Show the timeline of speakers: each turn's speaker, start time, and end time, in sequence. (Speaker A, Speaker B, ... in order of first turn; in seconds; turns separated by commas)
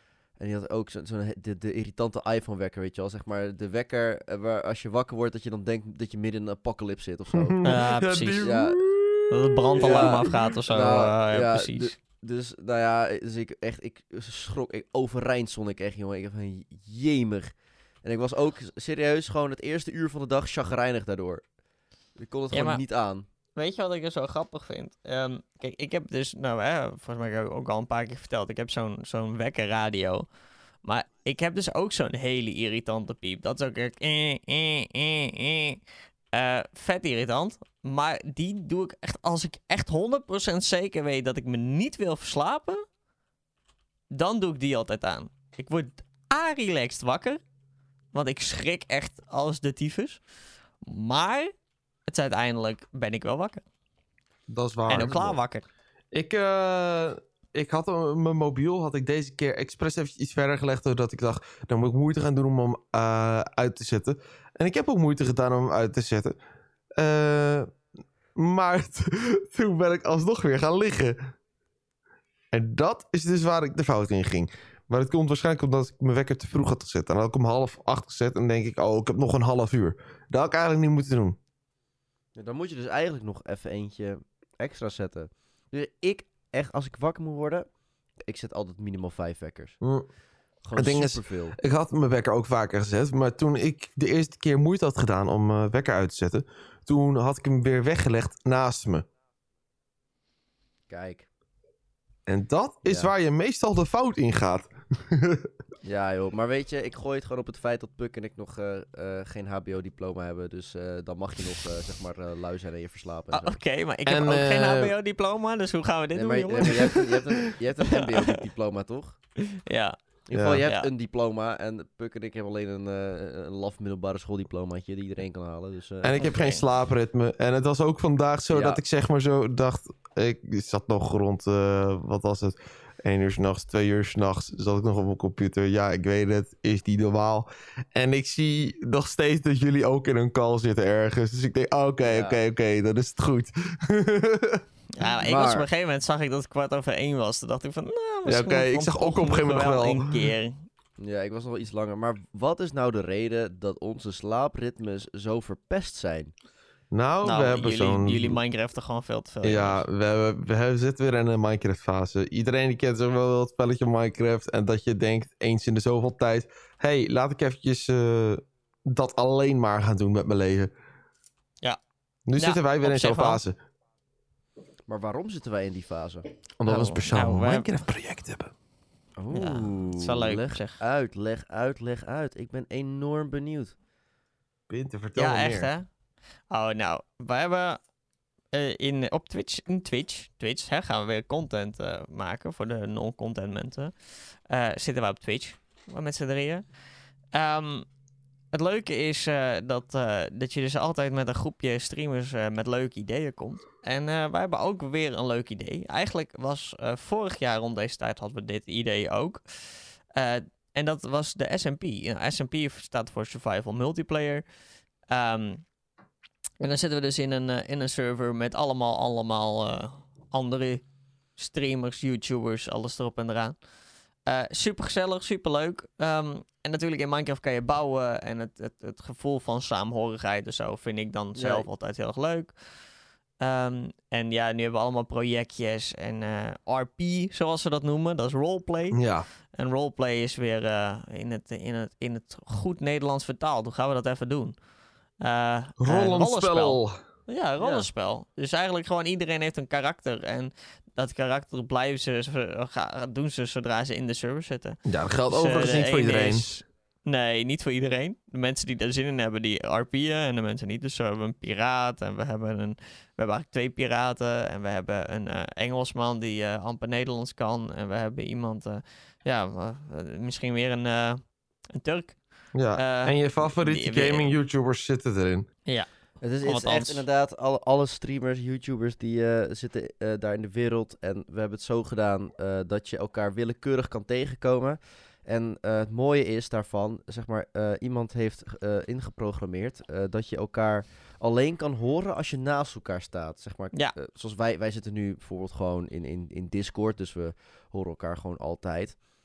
Speaker A: 0.4-7.6, Speaker B: 7.3-10.5, Speaker C: 7.6-8.5, Speaker A: 8.4-8.8, Speaker C: 9.3-11.9, Speaker A: 9.8-21.4, Speaker A: 22.2-23.2, Speaker C: 22.5-22.8, Speaker C: 23.6-30.3, Speaker C: 30.8-35.8, Speaker C: 36.3-42.8, Speaker C: 44.1-47.4, Speaker C: 48.1-50.2, Speaker C: 50.8-51.5, Speaker C: 52.1-53.6, Speaker B: 54.5-55.4, Speaker C: 54.9-55.6, Speaker B: 56.1-66.3, Speaker B: 67.0-67.7, Speaker B: 68.3-71.3, Speaker B: 72.5-81.4, Speaker A: 82.3-87.7, Speaker A: 88.2-89.8, Speaker B: 89.8-90.0, Speaker A: 90.6-91.5, Speaker B: 90.7-99.0, Speaker A: 100.9-101.3, Speaker B: 102.3-105.5, Speaker A: 105.8-113.6, Speaker C: 113.3-118.4, Speaker B: 114.0-114.9, Speaker A: 116.2-119.2, Speaker C: 119.5-120.0, Speaker A: 120.3-126.2, Speaker B: 120.3-120.6, Speaker B: 126.0-144.6, Speaker C: 126.2-126.6, Speaker A: 142.1-142.4, Speaker C: 144.9-150.7, Speaker A: 145.2-145.7, Speaker B: 148.3-150.3, Speaker A: 151.0-156.3, Speaker B: 156.9-158.4, Speaker C: 157.2-159.8, Speaker B: 159.4-170.7, Speaker B: 172.3-173.6, Speaker C: 172.4-173.4, Speaker A: 174.9-176.2, Speaker B: 176.6-178.5, Speaker C: 176.7-177.7, Speaker A: 179.2-183.8, Speaker C: 179.3-180.8, Speaker B: 184.7-185.7, Speaker C: 185.2-185.9, Speaker C: 186.5-187.8, Speaker C: 188.5-196.6, Speaker C: 197.3-197.9, Speaker C: 198.5-214.4, Speaker C: 215.1-215.7, Speaker C: 216.6-223.6, Speaker C: 224.2-232.6, Speaker A: 231.3-231.7, Speaker C: 233.4-239.0, Speaker B: 238.9-239.3, Speaker C: 239.5-244.6, Speaker C: 245.2-254.8, Speaker B: 245.8-246.9, Speaker A: 247.6-247.8, Speaker B: 254.8-256.4, Speaker C: 255.3-274.3, Speaker B: 272.5-275.5, Speaker A: 276.2-299.0, Speaker C: 276.4-277.0